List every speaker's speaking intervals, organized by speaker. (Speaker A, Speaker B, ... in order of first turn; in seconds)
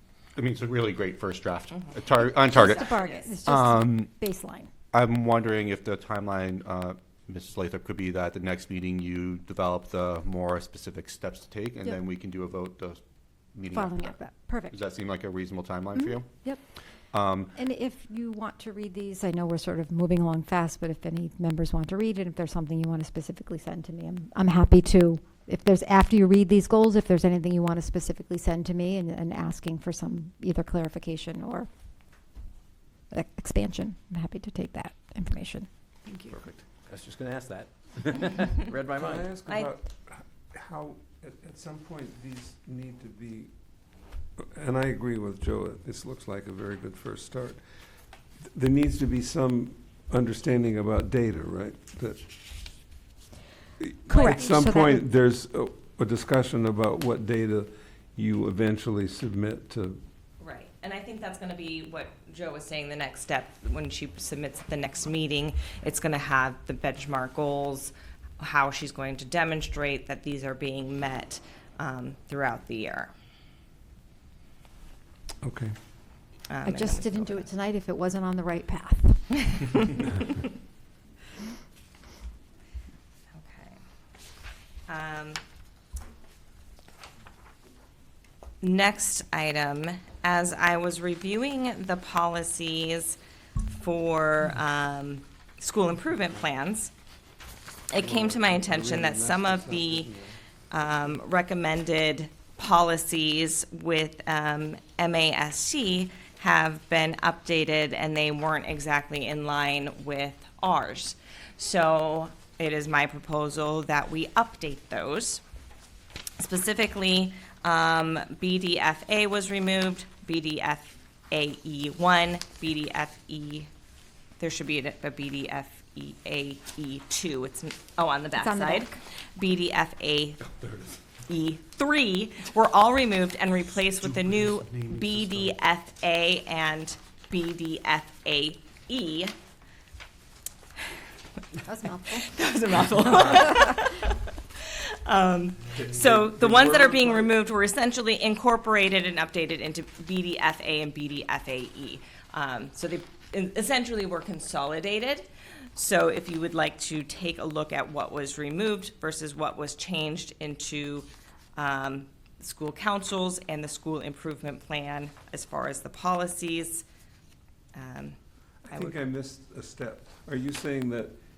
Speaker A: 0.4-4.1, 4.9-13.0, 13.5-14.2, 14.7-16.4, 17.1-17.6, 130.6-131.0, 134.0-135.5
Speaker B: 1.7-3.4, 36.1-36.3, 39.5-39.7, 54.1-54.6, 60.4-73.1, 76.5-77.5, 83.3-83.8, 84.9-85.4, 88.6-93.2, 93.7-96.9, 97.9-100.1, 100.7-115.4, 116.4-123.7, 124.4-130.5, 131.3-139.3, 142.1-166.9, 167.7-168.2, 168.7-168.9
Speaker C: 2.5-4.7, 13.7-14.8, 17.6-31.7, 33.1-35.7, 54.1-55.0, 76.6-79.8, 128.4-129.0, 141.7-142.3
Speaker D: 36.3-36.6, 38.9-43.5, 44.4-47.6, 48.5-52.3, 53.8-60.0, 75.4-75.7, 98.0-100.4, 145.8-147.3, 168.7-171.2
Speaker E: 36.9-39.3